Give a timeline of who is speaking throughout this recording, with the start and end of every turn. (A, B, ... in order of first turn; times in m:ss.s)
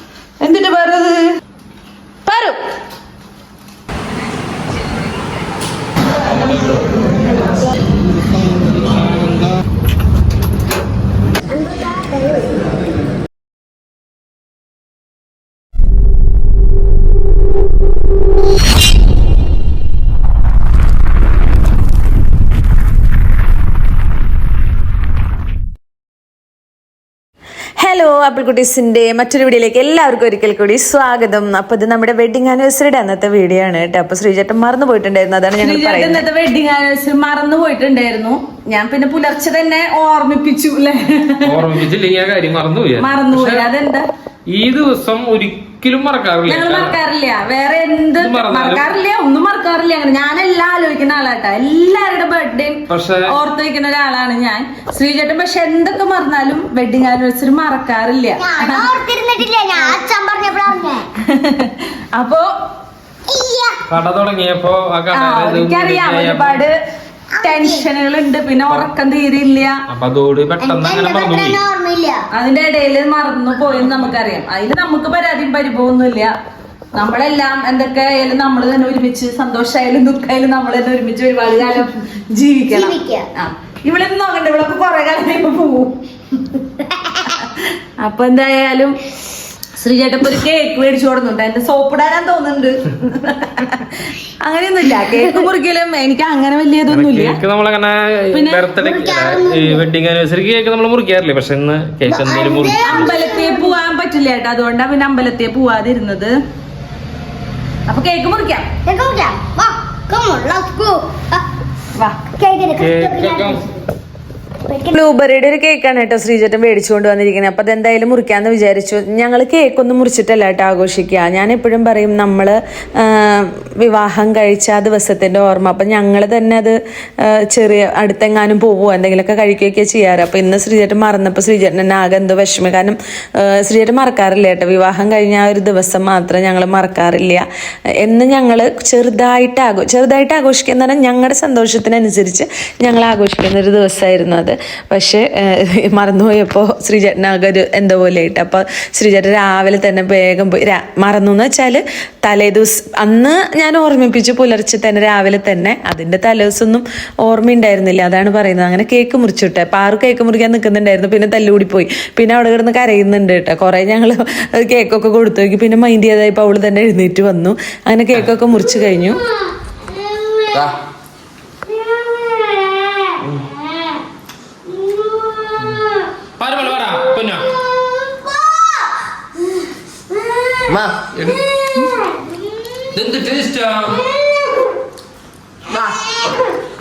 0:00.4-0:01.3 A
0:02.2-0:02.6 A
0:27.8-0:36.2 B
0:35.6-0:41.6 A
0:41.4-0:43.7 C
0:43.0-0:44.0 A
0:44.5-0:47.0 C
0:46.4-0:58.9 A
0:48.2-0:49.0 C
0:52.9-0:53.3 C
0:58.4-1:01.1 D
1:01.3-1:02.5 A
1:03.3-1:03.8 D
1:03.9-1:06.6 C
1:05.1-1:06.8 A
1:07.3-1:07.8 D
1:07.4-1:09.8 A
1:09.9-1:11.6 C
1:10.6-1:12.2 D
1:12.3-1:16.3 A
1:17.0-1:26.6 A
1:22.7-1:23.3 D
1:27.2-1:29.0 A
1:29.8-1:37.4 A
1:36.9-1:43.1 C
1:38.3-1:38.6 A
1:38.7-1:39.8 D
1:42.1-1:43.7 D
1:42.8-1:46.4 A
1:47.9-1:48.7 A
1:48.8-1:51.4 D
1:52.3-1:53.8 D
1:52.8-1:53.6 C
1:54.7-1:55.0 D
1:54.9-2:17.4 B
2:18.0-2:49.2 B
2:50.1-2:50.5 D
2:52.0-2:53.8 D
2:54.8-2:55.5 D
2:56.4-2:57.4 C
3:01.2-3:01.4 C
3:03.0-3:04.0 C